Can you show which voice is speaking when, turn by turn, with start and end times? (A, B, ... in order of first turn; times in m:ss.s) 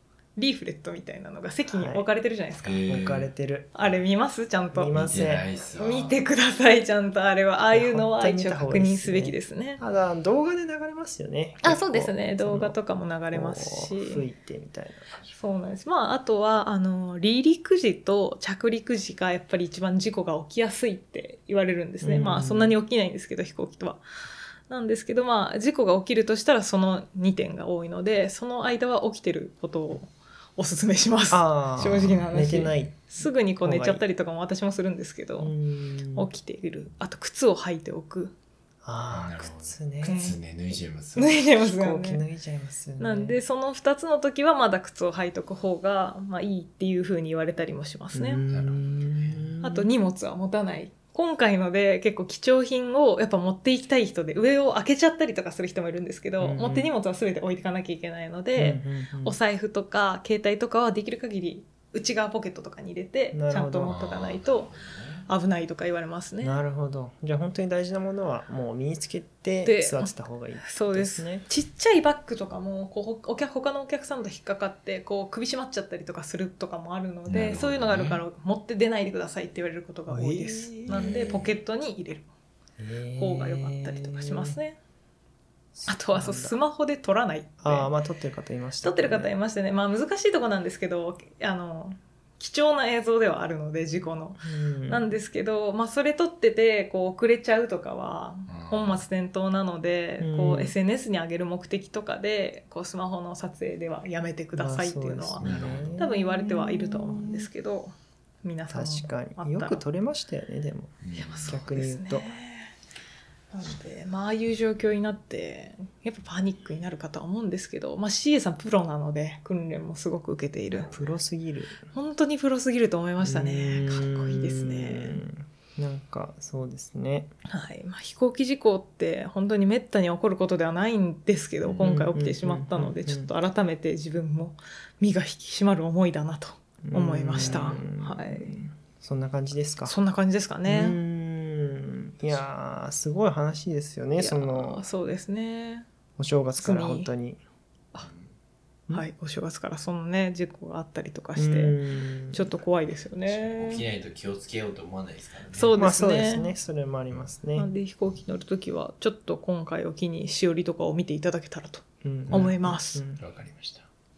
0:00.4-0:02.9 A
0:01.7-0:02.0 B
0:02.6-0:03.3 C
0:02.9-0:03.7 B
0:03.7-0:05.0 A
0:04.7-0:05.4 B
0:04.9-0:06.2 C
0:05.7-0:09.8 A
0:07.7-0:12.8 B
0:11.6-0:14.2 A
0:13.3-0:15.2 B
0:15.3-0:24.0 A
0:22.0-0:22.8 B
0:24.7-0:35.5 A
0:31.3-0:34.0 B
0:31.8-0:32.5 C
0:35.4-0:36.3 B
0:36.1-0:38.3 A
0:38.8-0:40.3 B
0:39.1-0:41.4 C
0:40.0-0:40.4 A
0:41.2-0:42.2 A
0:41.4-0:43.4 B
0:43.0-0:48.4 A
0:48.1-0:49.9 B
0:48.5-0:49.5 C
0:49.6-1:04.7 A
0:56.4-0:56.9 B
0:58.6-0:59.4 B
1:03.3-1:04.0 B
1:03.8-1:05.3 C
1:05.3-1:06.6 A
1:06.4-1:11.4 B
1:09.6-1:22.3 A
1:17.3-1:18.2 C
1:20.1-1:21.4 B
1:20.9-1:21.5 C
1:22.8-1:24.6 B
1:23.2-1:24.8 A
1:25.7-1:26.6 B
1:25.9-1:27.9 A
1:27.6-1:29.3 B
1:28.8-1:47.9 A
1:34.4-1:35.2 B
1:38.5-1:39.0 C
1:40.2-1:40.7 B
1:44.6-1:47.5 B
1:45.4-1:46.1 C
1:48.4-1:49.8 A
1:48.7-1:52.3 B
1:51.0-1:51.6 C
1:51.2-1:52.7 A
1:53.5-2:00.9 A
2:00.8-2:01.1 C
2:00.9-2:01.8 B
2:01.9-2:05.2 A
2:03.2-2:07.3 B
2:07.5-2:18.6 A
2:11.7-2:13.3 B
2:16.8-2:20.0 B
2:19.8-2:21.0 A
2:20.6-2:24.8 B
2:24.2-2:25.8 A
2:26.2-2:27.4 B
2:26.6-2:27.1 A
2:28.0-2:28.3 C
2:28.9-2:31.8 A
2:31.4-2:32.5 B
2:32.3-2:33.8 A
2:33.2-2:35.8 C
2:35.5-2:36.5 A
2:35.8-2:37.7 B
2:37.6-2:43.0 A
2:42.0-2:43.2 B
2:43.2-2:43.8 C